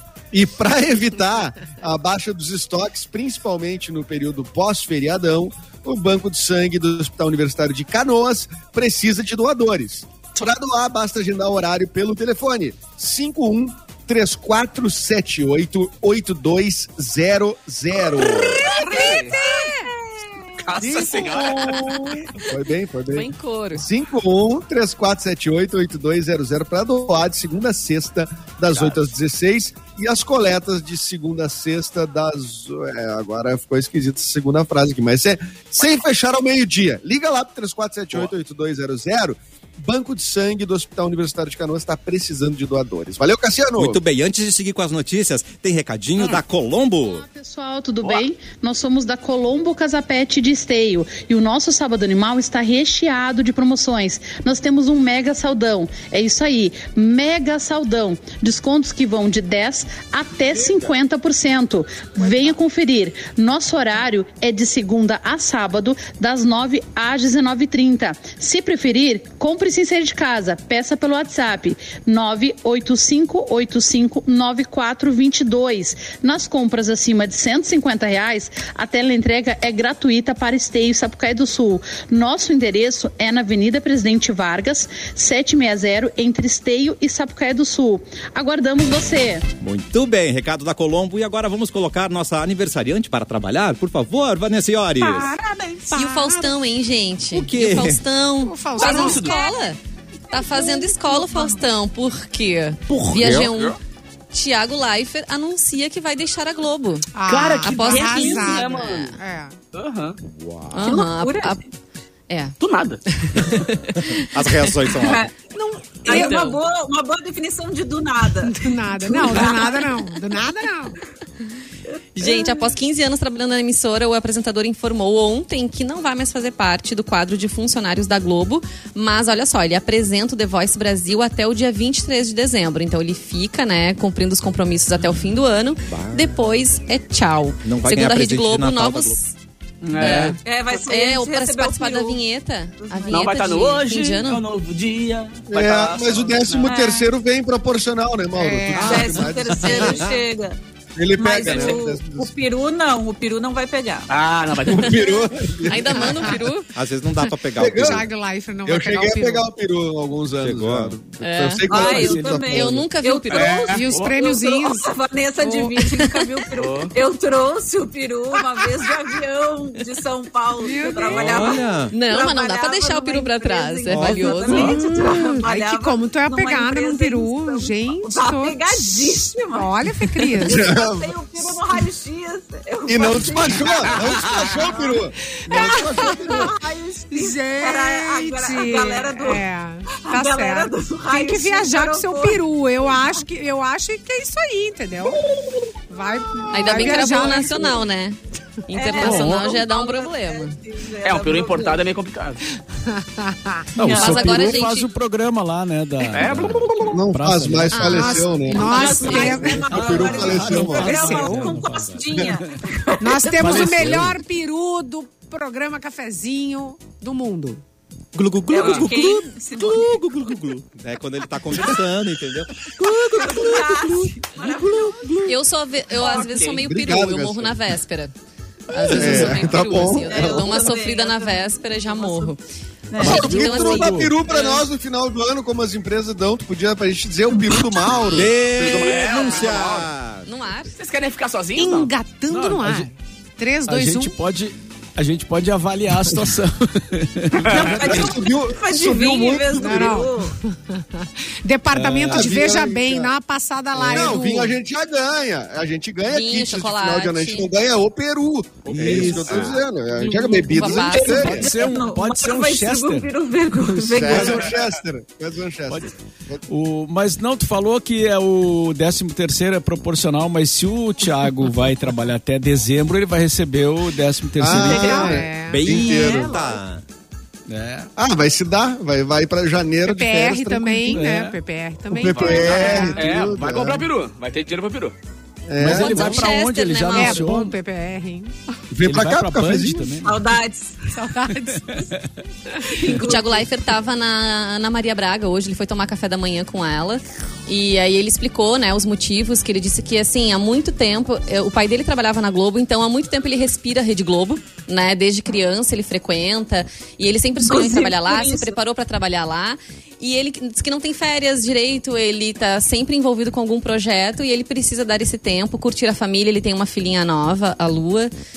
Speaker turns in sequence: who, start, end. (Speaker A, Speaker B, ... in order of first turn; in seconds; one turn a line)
Speaker A: 0.3-18.6
Speaker B: 18.2-20.6
Speaker C: 18.2-19.4
Speaker D: 18.7-19.9
Speaker C: 20.6-22.0
Speaker A: 20.8-44.0
Speaker E: 23.1-23.9
Speaker C: 28.7-29.0
Speaker F: 43.8-47.3
Speaker G: 47.1-89.5
Speaker F: 89.6-95.3
Speaker B: 95.0-95.9
Speaker D: 95.9-96.5
Speaker E: 95.9-99.8
Speaker F: 97.3-98.0
Speaker D: 98.4-99.2
Speaker C: 98.8-99.3
Speaker B: 98.8-99.7
Speaker B: 100.3-101.6
Speaker E: 100.3-103.8
Speaker F: 103.1-103.5
Speaker C: 103.2-103.8
Speaker E: 104.3-107.1
Speaker D: 107.2-109.6
Speaker C: 107.3-109.2
Speaker E: 107.6-109.1
Speaker C: 109.7-110.2
Speaker F: 110.2-111.0
Speaker E: 110.7-111.6
Speaker B: 110.8-111.6
Speaker E: 112.3-112.5
Speaker C: 112.6-113.0
Speaker E: 113.3-114.7
Speaker F: 113.9-115.3
Speaker B: 115.0-115.3
Speaker D: 115.5-116.5
Speaker B: 116.0-119.8
Speaker C: 116.1-116.5
Speaker D: 118.5-121.0
Speaker E: 122.2-139.3
Speaker B: 122.2-122.5
Speaker F: 135.9-136.3
Speaker F: 137.7-139.2
Speaker C: 139.8-140.4
Speaker E: 140.0-144.4
Speaker B: 140.4-142.2
Speaker B: 142.8-143.6
Speaker C: 143.1-146.7
Speaker A: 145.5-150.1
Speaker B: 146.6-147.1
Speaker D: 148.4-149.0
Speaker F: 148.8-150.2
Speaker B: 148.8-150.6
Speaker A: 151.0-152.3
Speaker B: 151.2-154.1
Speaker C: 151.4-151.8
Speaker C: 154.1-155.2
Speaker A: 154.7-156.4
Speaker E: 155.6-156.7
Speaker D: 155.9-156.4
Speaker F: 156.8-158.1
Speaker A: 157.6-158.1
Speaker D: 157.7-159.5
Speaker A: 158.7-162.9
Speaker F: 160.4-161.0
Speaker E: 161.2-163.8
Speaker B: 161.7-189.5
Speaker C: 163.3-164.1
Speaker D: 163.7-164.9
Speaker D: 165.4-165.8
Speaker C: 166.6-166.9
Speaker D: 170.6-171.6
Speaker F: 171.2-171.9
Speaker E: 171.9-174.8
Speaker F: 173.9-174.3
Speaker D: 174.5-180.7
Speaker A: 180.4-181.5
Speaker A: 182.9-186.5
Speaker C: 184.1-184.4
Speaker D: 185.4-186.5
Speaker D: 187.1-195.2
Speaker B: 190.1-193.2
Speaker D: 195.9-197.8
Speaker E: 196.5-200.6
Speaker B: 198.7-201.8
Speaker H: 199.0-199.4
Speaker C: 199.0-199.5
Speaker C: 201.0-202.4
Speaker D: 203.2-203.7
Speaker H: 203.8-207.8
Speaker B: 203.8-204.4
Speaker E: 203.9-204.9
Speaker C: 206.1-207.0
Speaker A: 206.9-211.0
Speaker E: 207.7-209.3
Speaker D: 207.8-209.8
Speaker B: 208.6-213.8
Speaker H: 209.7-212.4
Speaker D: 210.6-211.5
Speaker D: 213.0-217.6
Speaker H: 213.4-214.2
Speaker F: 213.6-214.1
Speaker F: 218.1-225.3
Speaker B: 218.5-220.3
Speaker C: 218.6-218.9
Speaker B: 223.1-225.1
Speaker E: 225.2-228.1
Speaker C: 226.0-226.6
Speaker A: 226.6-227.6
Speaker E: 228.7-232.4
Speaker A: 228.9-230.6
Speaker B: 229.1-232.3
Speaker B: 232.9-233.3
Speaker E: 232.9-234.1
Speaker A: 233.0-238.3
Speaker H: 233.0-234.2
Speaker B: 234.3-234.6
Speaker F: 238.1-240.3
Speaker C: 238.4-239.9
Speaker E: 240.2-240.7
Speaker C: 240.7-241.9
Speaker D: 241.6-244.2
Speaker H: 242.3-242.9
Speaker H: 243.7-248.2
Speaker C: 247.4-247.8
Speaker B: 247.5-250.3
Speaker A: 247.5-250.0
Speaker D: 249.6-250.2
Speaker D: 250.7-254.6
Speaker H: 251.7-252.4
Speaker A: 252.1-253.1
Speaker A: 253.8-261.6
Speaker E: 256.1-257.5
Speaker C: 258.7-259.5
Speaker F: 258.7-259.6
Speaker H: 258.9-259.2
Speaker H: 260.1-263.1
Speaker E: 260.4-261.4
Speaker B: 261.1-264.5
Speaker H: 263.7-264.4
Speaker A: 263.9-266.4
Speaker H: 266.5-275.2
Speaker A: 274.4-276.4
Speaker B: 274.5-275.2
Speaker D: 274.6-275.8
Speaker F: 275.4-276.8
Speaker B: 275.7-276.4
Speaker H: 277.5-277.9
Speaker A: 278.0-281.0
Speaker D: 279.8-283.1
Speaker H: 280.9-281.4
Speaker A: 281.9-283.9
Speaker C: 282.1-285.0
Speaker A: 285.5-286.3
Speaker H: 285.6-287.5
Speaker E: 285.6-287.3
Speaker D: 286.9-288.4
Speaker A: 288.7-290.1
Speaker H: 288.8-290.1
Speaker B: 290.1-290.9
Speaker D: 290.9-291.8
Speaker B: 292.7-293.5
Speaker E: 292.9-318.1
Speaker B: 307.4-308.6